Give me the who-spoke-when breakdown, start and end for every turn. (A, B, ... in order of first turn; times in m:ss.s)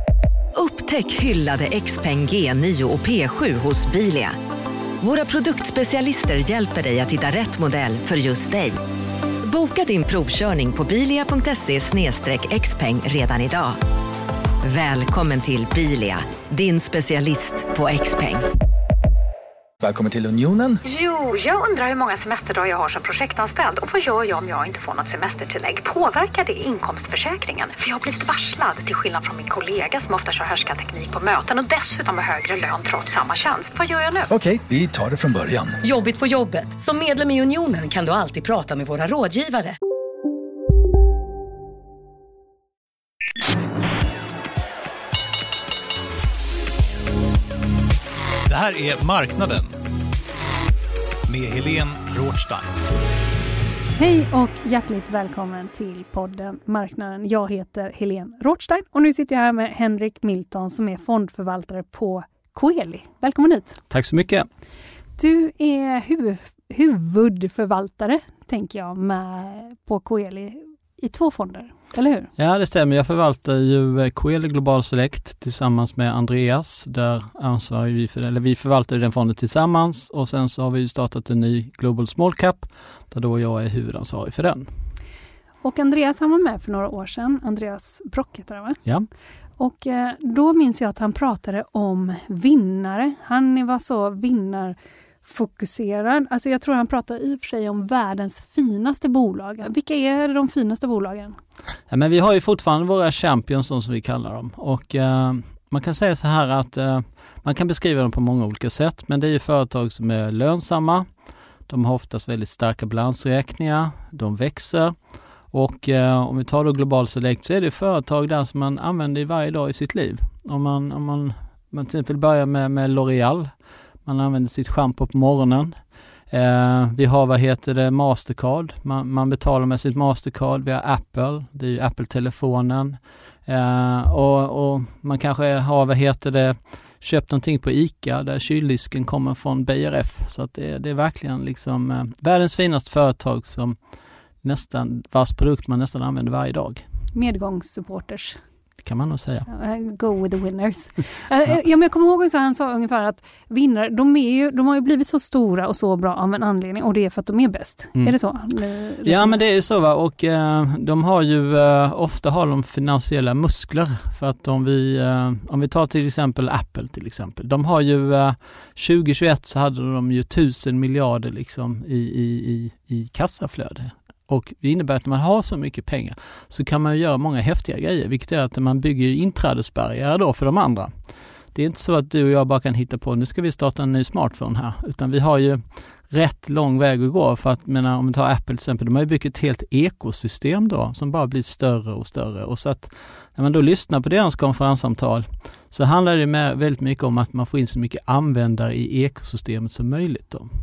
0:00.5-0:04.4 A
0:05.0-0:08.8 A
0:09.4-0:13.8 A
0:14.6-0:18.4 A
0:19.8-0:20.8 B
0:20.8-0:34.3 C
0:34.3-0:35.8 B
0:35.8-0:39.8 D
0:48.5-0:49.7 E
0:51.2-0:52.7 E
0:54.0-1:03.8 F
1:03.9-1:04.5 G
1:05.2-1:12.3 F
1:12.4-1:24.7 G
1:25.6-1:28.8 F
1:29.6-1:41.4 F
1:41.9-1:51.1 G
1:51.7-1:55.0 G
1:55.5-2:05.8 G
2:06.3-2:23.8 G
2:24.4-2:26.8 G
2:27.1-2:28.4 F
2:28.8-2:29.5 G
2:29.5-2:39.4 F
2:39.0-3:00.9 G
3:01.5-3:20.5 G